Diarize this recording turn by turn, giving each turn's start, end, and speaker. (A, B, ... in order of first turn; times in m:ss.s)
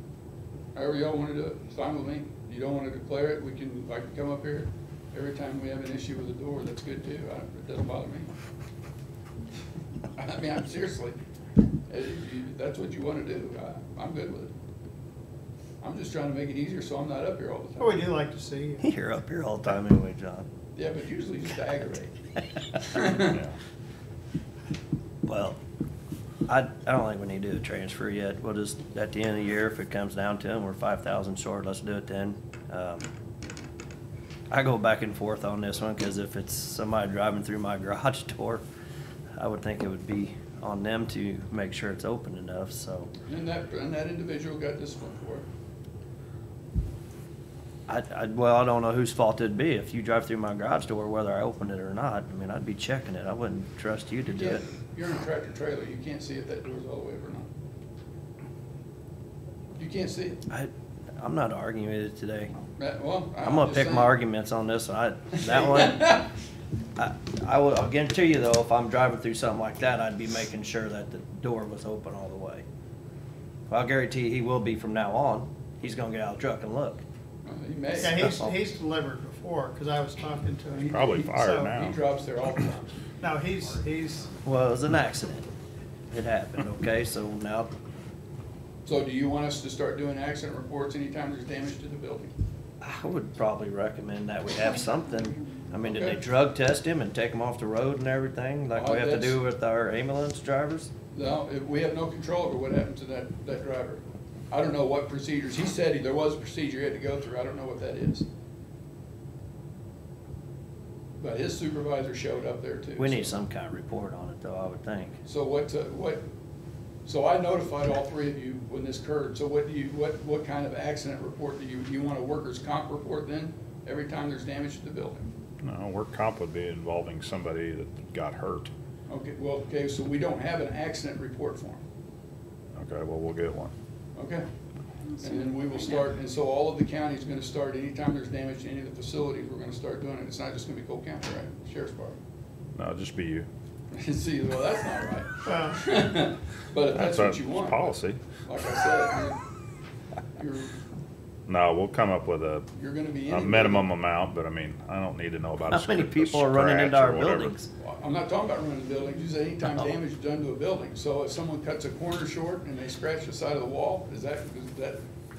0:00.7-0:08.3 A
0:10.2-0:11.2 A
0:11.9-0:14.5 A
0:15.8-0:18.1 A
0:17.8-0:18.9 B
0:18.8-0:20.5 C
0:20.8-0:23.4 A
0:23.3-0:23.5 D
0:25.2-0:25.6 C
0:26.4-0:33.1 C
0:34.5-0:38.6 C
0:39.4-0:43.1 C
0:43.3-0:45.4 A
0:47.9-0:54.6 C
0:54.3-0:57.5 A
0:59.8-1:00.4 A
1:00.5-1:02.6 C
1:02.8-1:04.2 A
1:03.4-1:06.2 C
1:05.4-1:06.3 A
1:07.0-1:12.6 C
1:13.7-1:17.0 C
1:17.4-1:18.3 A
1:18.0-1:18.6 C
1:18.0-1:21.7 B
1:20.7-1:22.9 A
1:20.9-1:22.0 D
1:23.2-1:24.4 B
1:24.4-1:25.5 C
1:26.1-1:27.7 C
1:28.8-1:32.3 A
1:32.8-1:40.9 C
1:35.8-1:36.2 A
1:38.7-1:39.4 A
1:41.1-1:48.2 A
1:51.2-1:53.3 A
1:53.0-1:55.2 C
1:55.2-1:56.2 A
1:57.0-2:05.3 A
2:05.6-2:08.7 D
2:09.1-2:11.8 A
2:12.8-2:13.7 D
2:14.1-2:14.4 A
2:15.2-2:22.2 A
2:22.8-2:23.5 D
2:23.9-2:27.9 A
2:25.4-2:25.8 B
2:26.9-2:28.2 D
2:28.5-2:29.4 A
2:30.4-2:30.7 A
2:31.5-2:32.7 D
2:32.8-2:33.8 A
2:33.2-2:37.5 D
2:35.6-2:37.7 C
2:37.8-2:45.0 A